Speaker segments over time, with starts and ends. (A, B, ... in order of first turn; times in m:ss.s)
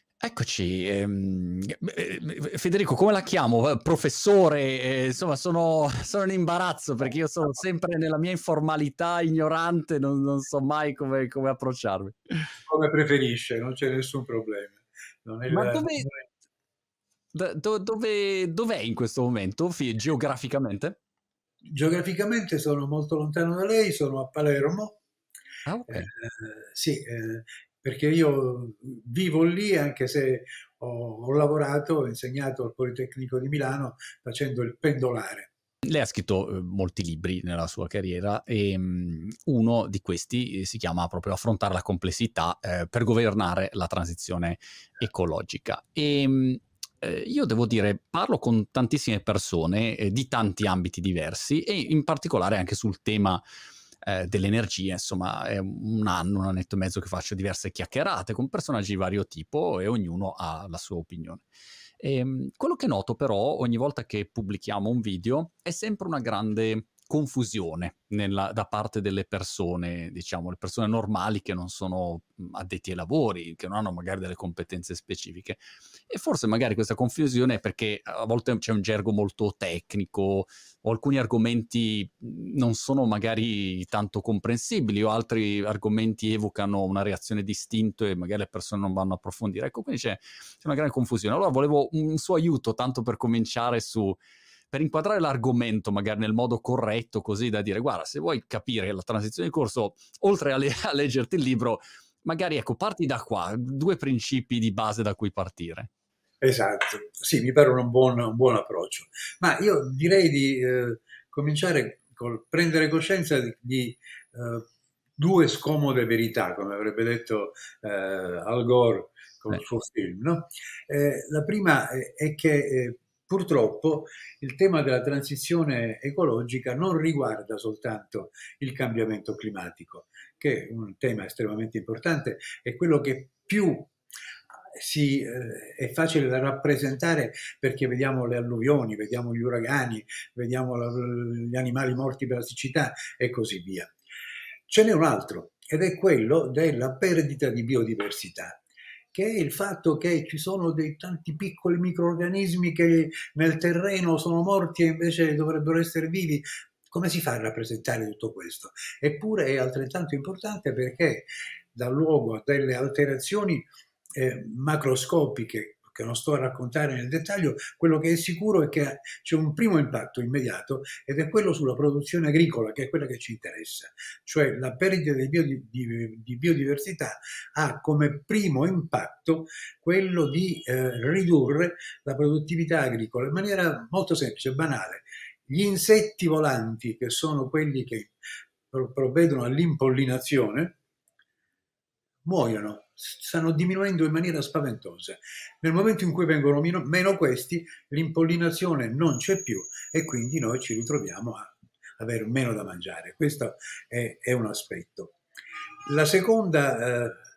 0:00.2-0:12.5 A
0:12.7-0:16.1 B
0:15.5-0:16.1 A
0:17.3-0:21.0 A
0:21.7-0:25.0 B
0:25.6-0:26.1 A
0:25.9-0:35.5 B
0:35.8-0:53.4 A
0:54.0-1:01.4 A
1:02.0-1:34.2 A
1:34.7-1:45.9 A
1:46.4-1:54.7 B
1:55.2-2:13.9 B
2:14.7-2:23.9 B
2:24.7-2:28.6 B
2:29.1-3:08.1 B
3:08.7-3:10.7 B
3:12.2-3:25.2 B
3:25.8-3:27.1 B